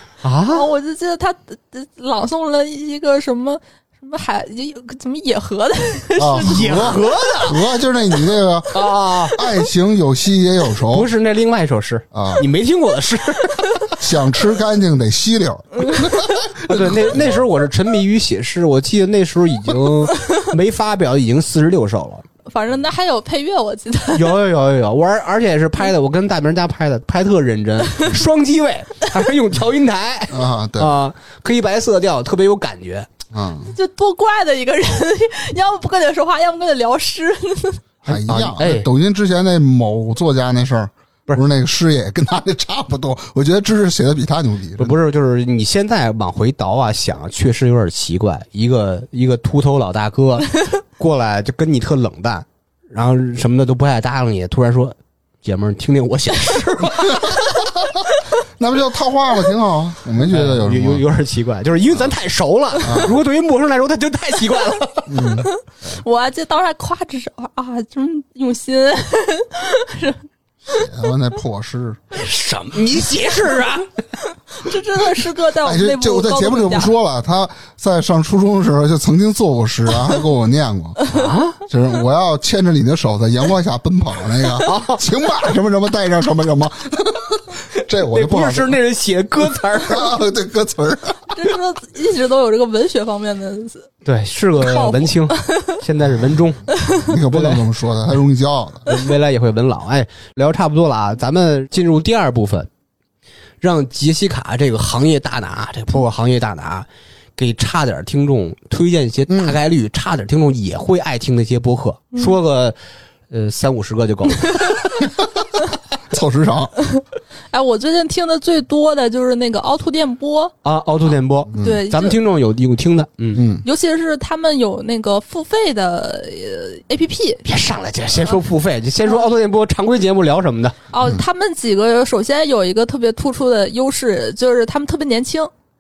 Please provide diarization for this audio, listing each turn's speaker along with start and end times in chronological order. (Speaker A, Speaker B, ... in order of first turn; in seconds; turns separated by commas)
Speaker A: 0.2-0.7, Speaker B: 0.5-7.0, Speaker C: 6.2-11.1, Speaker A: 6.4-7.6, Speaker A: 8.7-9.4, Speaker A: 10.9-13.9, Speaker C: 12.1-12.4, Speaker C: 14.0-17.4, Speaker B: 15.8-16.1, Speaker A: 16.5-22.2, Speaker B: 22.4-24.3, Speaker A: 24.1-33.1, Speaker C: 30.3-30.9, Speaker C: 33.3-33.7, Speaker B: 33.7-37.8, Speaker A: 38.0-38.9, Speaker C: 38.0-45.0, Speaker A: 44.8-57.4, Speaker C: 58.6-61.0, Speaker A: 60.2-65.3, Speaker C: 62.8-63.2, Speaker C: 65.1-65.5, Speaker B: 65.4-70.9, Speaker C: 70.7-72.0, Speaker A: 72.1-73.9, Speaker B: 74.3-76.9, Speaker C: 75.6-81.1, Speaker A: 81.1-81.6, Speaker C: 81.7-88.8, Speaker A: 84.6-85.0, Speaker A: 88.0-90.2, Speaker C: 89.4-91.4, Speaker B: 91.3-93.9, Speaker A: 94.0-96.7, Speaker B: 94.6-95.8, Speaker B: 96.7-97.1, Speaker C: 96.9-98.9, Speaker A: 97.2-97.7, Speaker A: 98.9-102.7, Speaker A: 103.6-112.8, Speaker C: 109.3-109.6, Speaker A: 113.3-115.0, Speaker C: 116.1-116.7, Speaker B: 116.9-120.5, Speaker A: 120.6-123.5, Speaker C: 121.5-121.8, Speaker B: 121.6-122.2, Speaker C: 123.3-123.6, Speaker B: 123.6-127.5, Speaker A: 127.4-130.8, Speaker B: 130.9-135.5